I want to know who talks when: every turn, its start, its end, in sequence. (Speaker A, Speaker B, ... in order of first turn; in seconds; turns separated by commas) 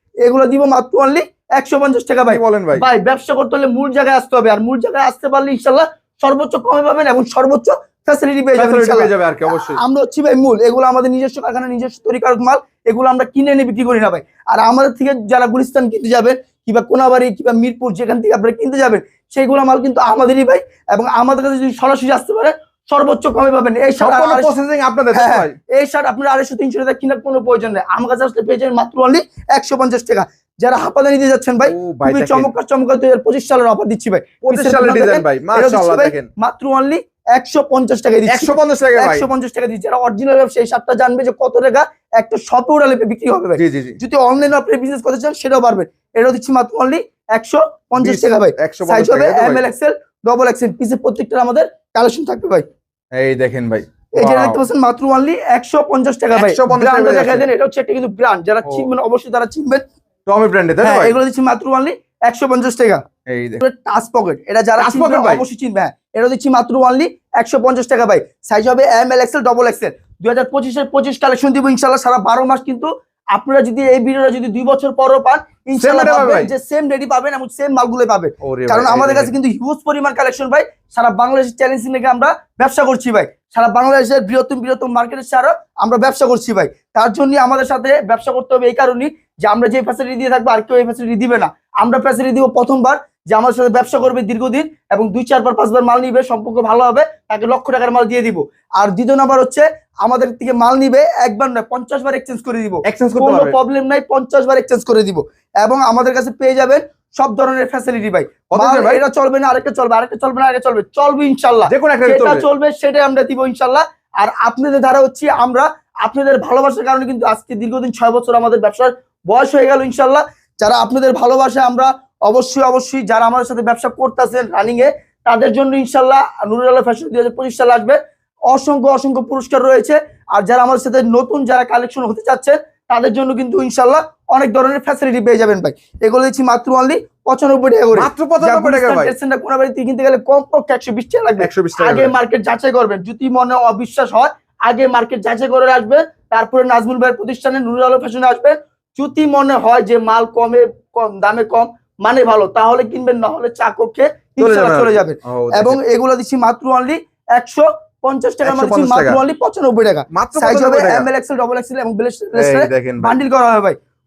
Speaker A: 0.2-24.5, Speaker B: 2.3-2.8, Speaker B: 8.5-9.8, Speaker B: 24.0-25.5, Speaker A: 25.1-52.6, Speaker B: 31.6-32.5, Speaker B: 34.4-36.3, Speaker B: 38.3-39.3, Speaker B: 43.6-44.0, Speaker B: 48.0-49.7, Speaker B: 53.1-54.6, Speaker A: 54.1-59.8, Speaker B: 56.3-57.5, Speaker B: 58.6-58.9, Speaker B: 60.2-61.1, Speaker A: 60.8-63.0, Speaker B: 63.3-63.6, Speaker A: 63.6-128.0, Speaker B: 64.8-65.4, Speaker B: 75.8-76.5, Speaker B: 78.4-79.3, Speaker B: 102.8-103.5, Speaker B: 108.5-109.0, Speaker B: 111.7-112.4, Speaker A: 128.5-163.8, Speaker B: 137.9-139.1, Speaker B: 141.4-142.1, Speaker B: 154.4-155.8, Speaker B: 158.4-159.2, Speaker B: 160.1-161.1, Speaker B: 162.3-163.2